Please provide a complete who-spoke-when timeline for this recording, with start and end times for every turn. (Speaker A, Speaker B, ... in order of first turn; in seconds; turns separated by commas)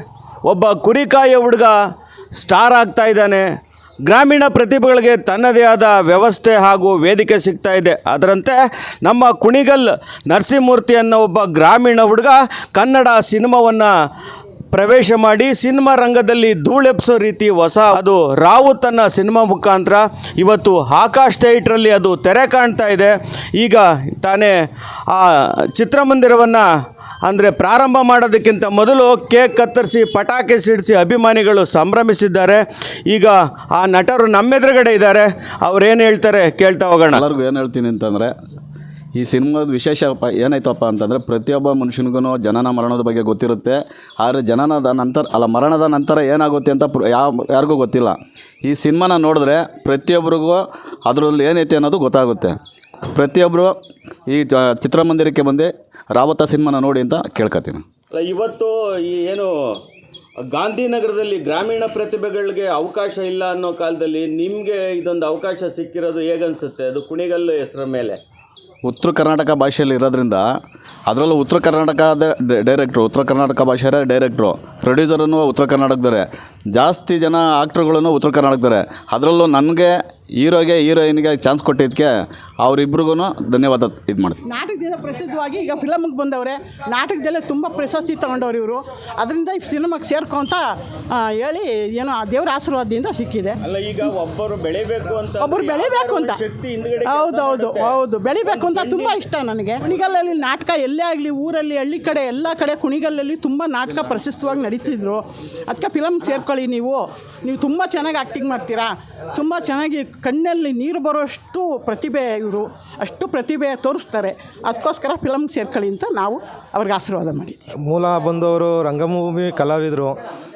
Speaker A: 0.5-1.8, Speaker A: 2.4-3.5, Speaker A: 4.1-13.9, Speaker A: 14.7-24.5, Speaker A: 25.1-26.6, Speaker A: 27.2-37.2, Speaker B: 37.1-38.3, Speaker B: 39.1-52.6, Speaker B: 53.1-53.7, Speaker B: 54.3-57.8, Speaker A: 58.1-59.5, Speaker A: 60.5-68.2, Speaker B: 68.8-70.5, Speaker B: 71.1-82.1, Speaker B: 82.6-84.4, Speaker C: 84.6-90.6, Speaker C: 91.4-93.5, Speaker A: 93.6-99.3, Speaker C: 95.4-96.3, Speaker C: 97.2-117.7, Speaker D: 117.8-120.2